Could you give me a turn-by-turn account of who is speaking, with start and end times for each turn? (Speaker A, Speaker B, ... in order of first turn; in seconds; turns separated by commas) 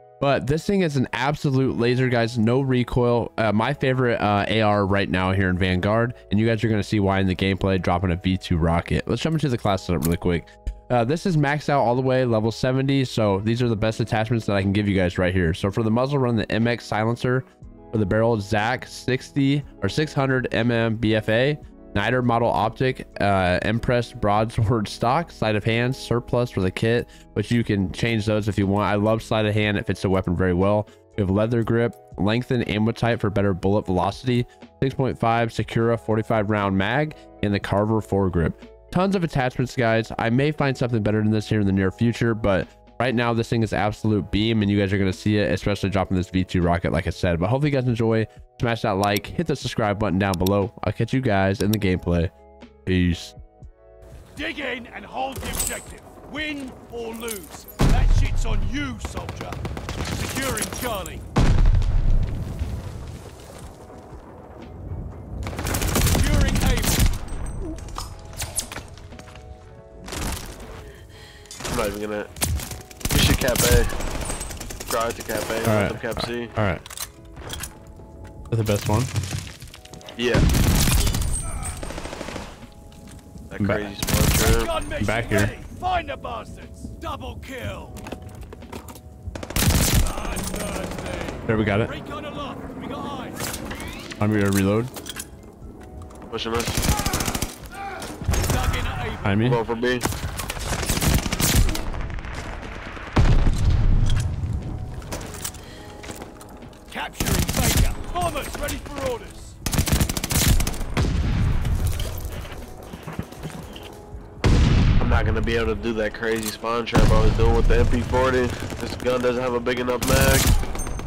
Speaker A: 0.2-52.3, Speaker A: 52.9-53.4, Speaker B: 54.4-59.6, Speaker B: 60.1-61.2, Speaker B: 66.1-67.1, Speaker C: 71.7-72.3, Speaker C: 73.1-73.9, Speaker C: 74.9-76.5, Speaker A: 75.6-76.8, Speaker A: 78.5-79.1, Speaker C: 80.2-80.4, Speaker C: 83.5-84.7, Speaker A: 83.6-83.9, Speaker B: 84.4-88.0, Speaker A: 85.0-85.5, Speaker B: 90.0-93.4, Speaker A: 91.5-91.9, Speaker A: 94.2-94.9, Speaker C: 96.3-96.8, Speaker B: 98.4-99.5, Speaker A: 99.2-99.6, Speaker C: 99.4-100.1, Speaker B: 106.9-109.6, Speaker C: 115.0-120.5